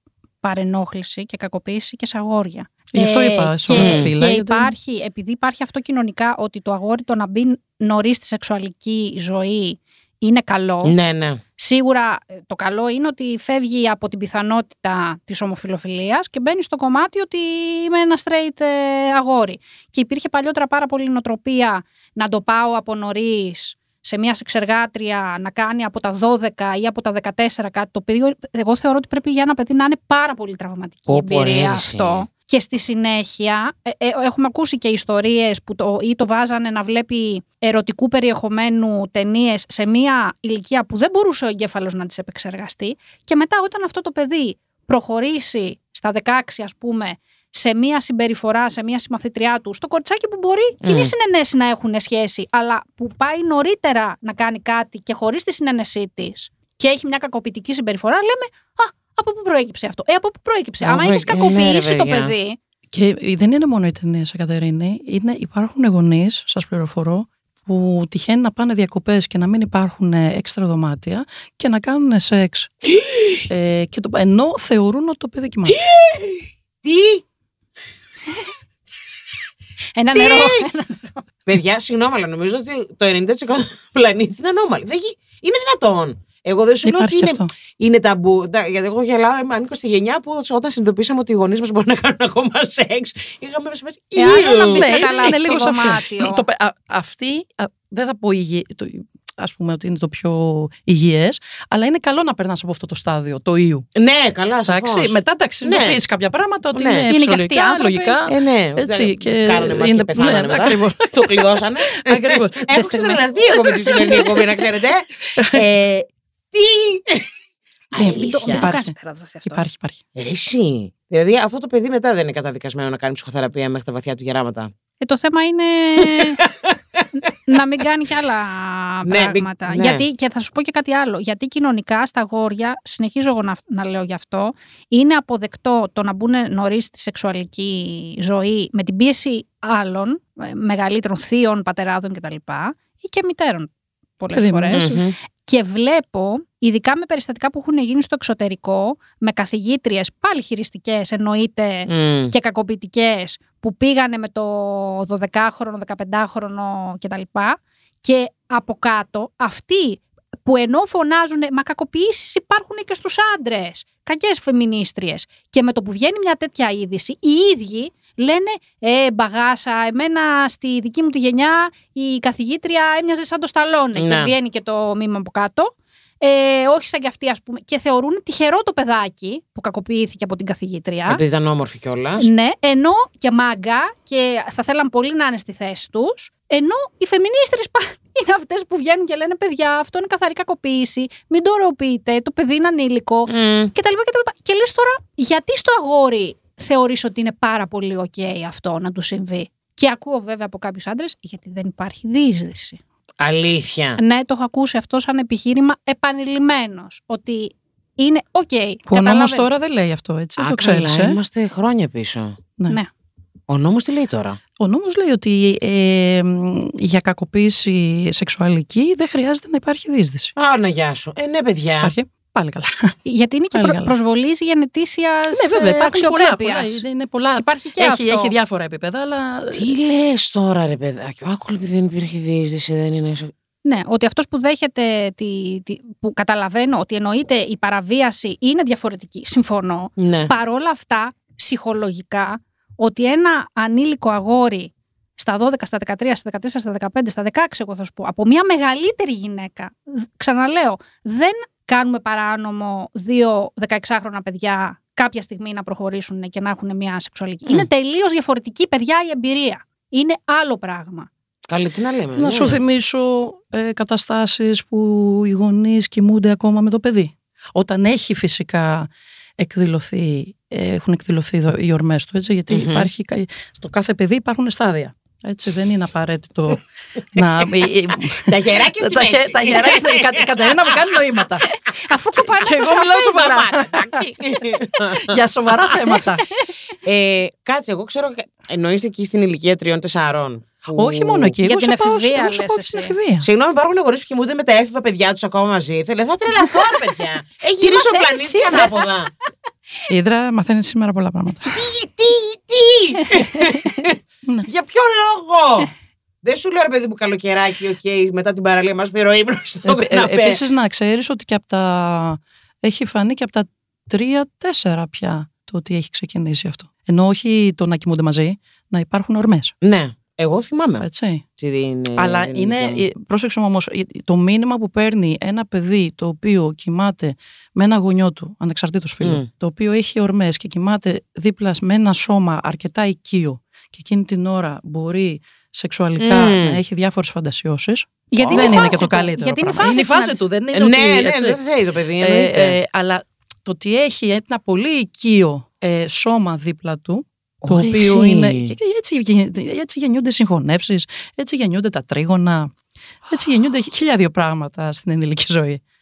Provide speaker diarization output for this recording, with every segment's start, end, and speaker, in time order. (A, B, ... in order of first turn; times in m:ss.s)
0:00.4-0:11.0 A
0:02.9-0:04.7 B
0:03.7-0:04.1 C
0:10.8-0:11.4 C
0:11.6-1:02.6 A
0:31.1-0:32.3 C
0:50.8-0:51.1 C
1:00.8-1:02.3 C
1:02.9-1:12.9 B
1:13.5-1:15.8 B
1:15.7-1:17.2 C
1:20.0-1:21.2 A
1:20.1-1:20.6 C
1:21.4-1:35.6 C
1:26.8-1:27.5 B
1:34.2-1:36.4 A
1:34.7-1:43.8 B
1:44.0-1:46.0 C
1:44.7-1:52.8 B
1:46.7-1:47.0 C
1:47.1-1:48.1 A
1:48.3-1:57.3 C
1:52.7-1:53.2 A
1:53.8-1:54.4 B
1:55.4-1:55.6 B
1:57.9-1:58.7 C
1:58.0-1:58.9 B
1:58.0-1:59.6 A
1:59.4-2:00.0 B
2:00.2-2:04.7 C
2:05.0-2:06.4 A
2:06.0-2:07.0 C
2:07.5-3:01.2 A
2:09.0-2:10.0 C
2:24.3-2:24.8 B
2:24.7-2:25.1 C
2:31.8-2:32.3 C
2:53.9-2:54.3 C
3:01.1-3:02.3 C
3:02.2-3:22.8 A
3:13.3-3:13.7 C
3:23.2-3:24.0 C
3:24.0-3:29.5 A
3:28.9-3:31.2 B
3:30.4-3:32.4 C
3:33.5-3:34.4 C
3:34.6-3:40.3 B
3:40.4-3:41.9 C
3:41.8-3:43.0 B
3:43.0-3:46.8 A
3:43.5-3:43.9 B
3:45.3-3:49.7 B
3:47.4-3:48.3 A
3:49.5-3:53.3 C
3:53.6-4:21.1 A
4:00.0-4:00.3 C
4:21.4-4:22.6 C
4:22.2-4:28.9 B
4:29.4-4:36.6 B
4:32.5-4:32.9 C
4:37.1-4:41.5 B
4:38.2-4:40.8 C
4:41.4-4:43.4 A
4:42.4-4:44.0 B
4:42.9-4:46.0 C
4:44.9-4:46.3 B
4:46.8-4:51.4 C
4:50.8-4:53.3 B
4:51.4-4:52.9 A
4:53.2-4:59.1 C
4:56.4-4:56.8 A
4:57.6-4:58.8 A
4:59.9-5:01.6 B
5:01.5-5:05.7 C
5:03.0-5:03.6 A
5:06.2-5:10.4 C
5:09.6-5:19.5 B
5:19.6-5:20.8 C
5:20.8-5:21.2 B
5:21.4-5:22.8 C
5:22.0-5:41.4 B
5:29.0-5:29.3 C
5:36.0-5:36.6 C
5:38.1-5:40.2 A
5:38.2-5:38.9 C
5:40.5-5:42.6 C
5:42.0-5:52.5 B
5:47.4-5:48.6 C
5:53.1-5:55.6 B